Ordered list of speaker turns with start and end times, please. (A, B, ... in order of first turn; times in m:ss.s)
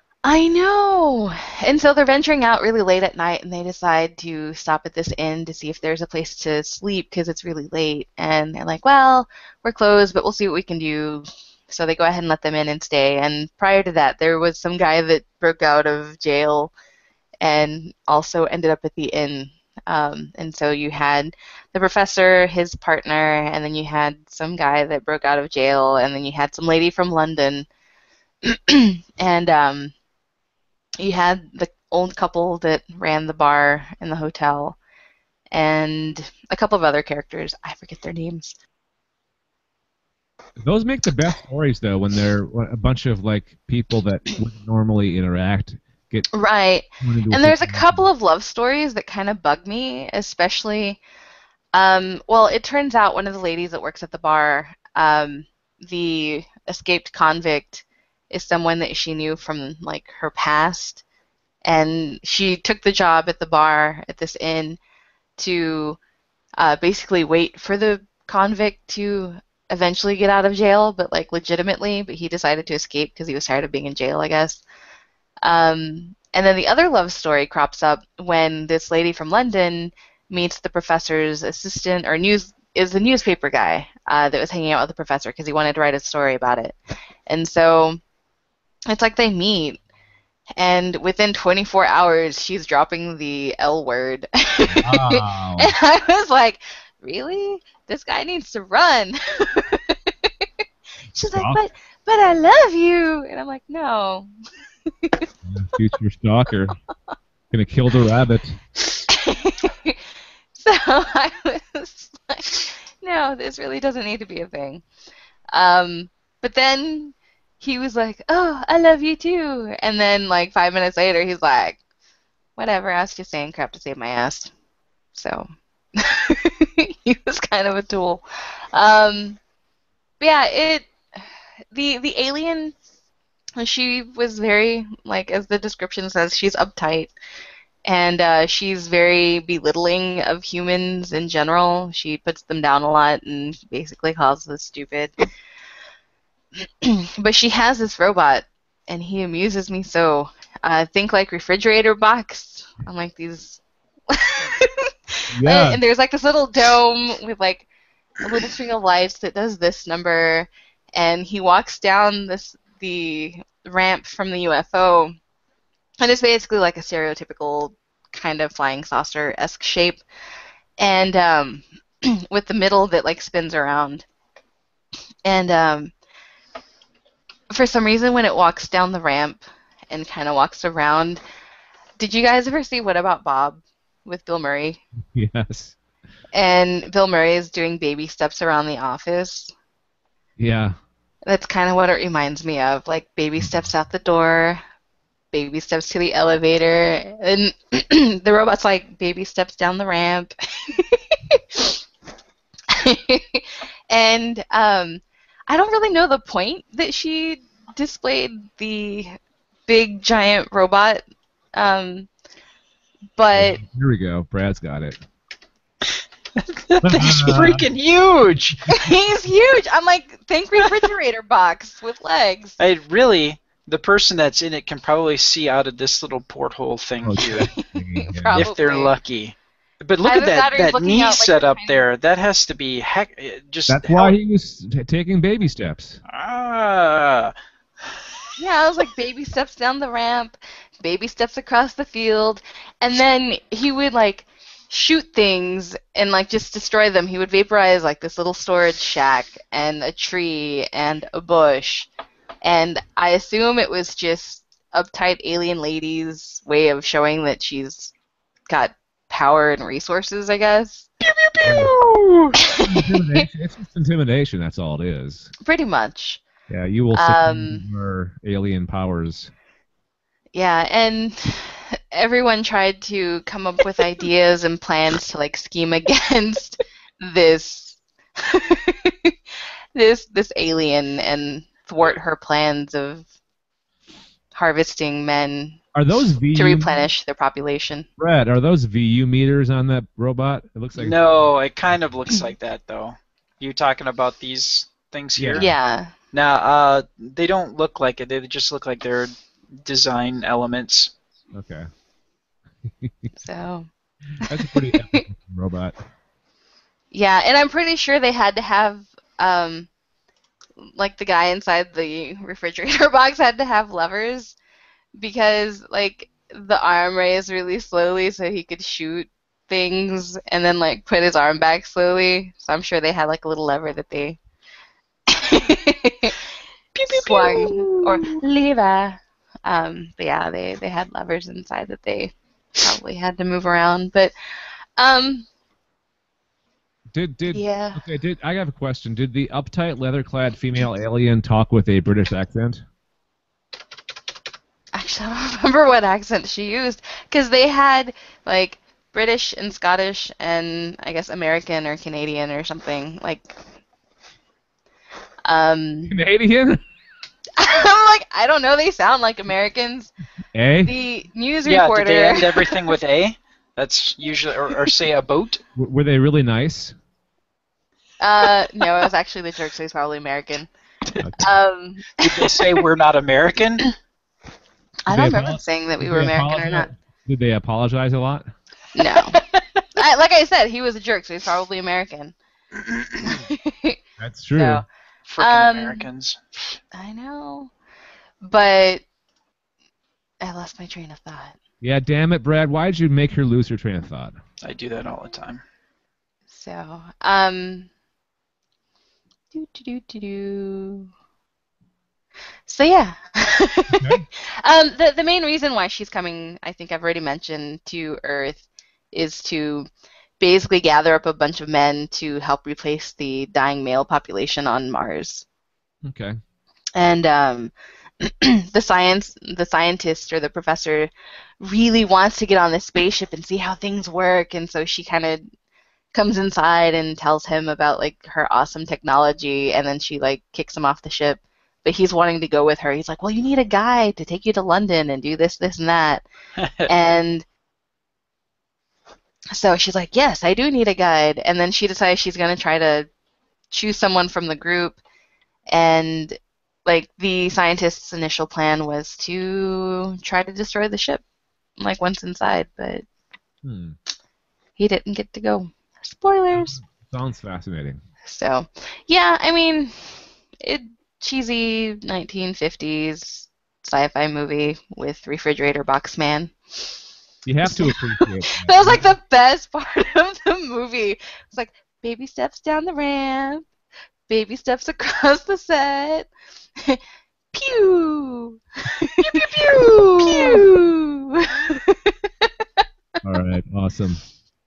0:00.2-0:16.7 A
0:17.4-0:27.7 A
0:28.4-0:29.9 A
0:31.0-0:34.8 A
0:35.5-0:38.6 A
0:40.6-0:46.3 B
0:46.3-0:51.0 A
0:47.0-0:48.1 B
0:51.7-1:01.0 A
1:01.6-1:04.8 A
1:05.4-1:06.0 A
1:06.6-1:14.6 A
1:15.4-1:26.8 A
1:27.3-1:28.0 A
1:28.9-1:29.8 A
1:30.6-1:40.5 A
1:34.7-1:35.7 B
1:41.1-1:44.3 A
1:41.2-1:41.6 B
1:44.9-1:45.3 A
1:45.4-1:46.8 B
1:47.5-1:48.6 B
1:49.1-1:50.0 A
1:50.6-1:54.8 A
1:55.5-2:01.8 A
2:02.6-2:04.5 A
2:05.1-2:09.4 A
2:10.2-2:10.9 A
2:11.7-2:12.8 A
2:13.6-2:17.1 A
2:17.9-2:25.2 A
2:26.6-2:37.7 A
2:35.3-2:35.8 B
2:38.2-2:45.2 A
2:46.0-2:50.0 A
2:50.8-2:54.0 A
2:55.2-2:55.9 A
2:57.5-3:01.2 A
3:02.0-3:04.8 A
3:05.1-3:05.8 B
3:06.3-3:09.5 A
3:10.4-3:10.8 B
3:11.3-3:14.6 A
3:15.3-3:21.8 A
3:22.7-3:32.1 A
3:33.2-3:33.6 A
3:33.3-3:35.0 B
3:36.4-3:38.8 C
3:36.8-3:37.6 B
3:38.7-3:42.6 A
3:42.6-3:47.5 C
3:47.0-3:48.5 B
3:47.2-3:48.9 A
3:48.3-3:54.2 C
3:50.0-3:51.8 A
3:53.7-3:56.0 B
3:56.1-3:57.3 C
3:58.4-4:11.9 A
4:12.4-4:17.9 A
4:18.5-4:20.9 A
4:21.0-4:22.4 C
4:21.4-4:21.7 B
4:22.4-4:23.3 A
4:22.6-4:25.3 B
4:25.4-4:26.2 A
4:26.5-4:29.3 B
4:26.9-4:27.6 A
4:30.3-4:39.2 A
4:39.7-4:43.1 A
4:44.3-4:45.6 A
4:45.8-4:46.7 B
4:46.4-4:47.9 A
4:48.0-4:51.0 B
4:50.8-4:55.5 C
4:55.2-4:55.5 B
4:55.4-4:55.9 A
4:56.1-5:00.9 C
5:01.3-5:01.7 B
5:02.7-5:03.1 B
5:03.2-5:03.7 A
5:04.2-5:05.8 B
5:04.2-5:05.0 A
5:06.9-5:09.7 A
5:10.6-5:14.4 A
5:15.0-5:24.2 A
5:25.1-5:26.2 A
5:26.8-5:28.2 C
5:26.9-5:34.1 A
5:34.8-5:35.3 A
5:36.9-5:42.6 B
5:37.3-5:37.8 A
5:44.7-5:53.4 A
5:55.3-5:55.9 A
5:55.9-5:56.6 B
5:57.4-5:59.9 A
6:00.3-6:00.7 B
6:00.6-6:02.6 A
6:01.4-6:05.4 C
6:05.6-6:06.8 B
6:08.0-6:10.5 A
6:11.0-6:11.3 B
6:11.2-6:12.6 A
6:12.0-6:13.7 C
6:14.9-6:16.7 A
6:14.9-6:18.3 B
6:18.8-6:19.2 A
6:19.0-6:19.6 C
6:19.8-6:22.2 A
6:22.6-6:23.1 C
6:23.0-6:23.8 A
6:24.0-6:24.6 B
6:24.4-6:24.6 A
6:25.1-6:26.6 C
6:25.2-6:25.9 A
6:26.7-6:27.5 A
6:28.2-6:28.8 A
6:30.2-6:31.4 A
6:31.6-6:34.2 B
6:34.4-6:35.4 C
6:36.3-6:37.7 A
6:39.3-6:40.9 A
6:42.5-6:49.7 A
6:43.7-6:44.0 B
6:50.2-6:55.2 A
6:55.8-6:56.2 B
6:56.8-7:05.3 A
7:05.9-7:16.0 A
7:16.4-7:16.7 C
7:16.7-7:17.2 A
7:19.3-7:22.9 A
7:23.5-7:24.8 A
7:25.5-7:31.0 A
7:31.6-7:32.8 A
7:33.4-7:33.8 B
7:34.6-7:36.6 A
7:36.3-7:37.8 B
7:38.0-7:39.8 A
7:40.4-7:46.4 A
7:47.2-7:48.9 B
7:47.4-7:53.5 A
7:54.1-7:56.8 A
7:57.3-8:02.6 A
7:59.0-8:00.5 C
8:03.0-8:04.0 B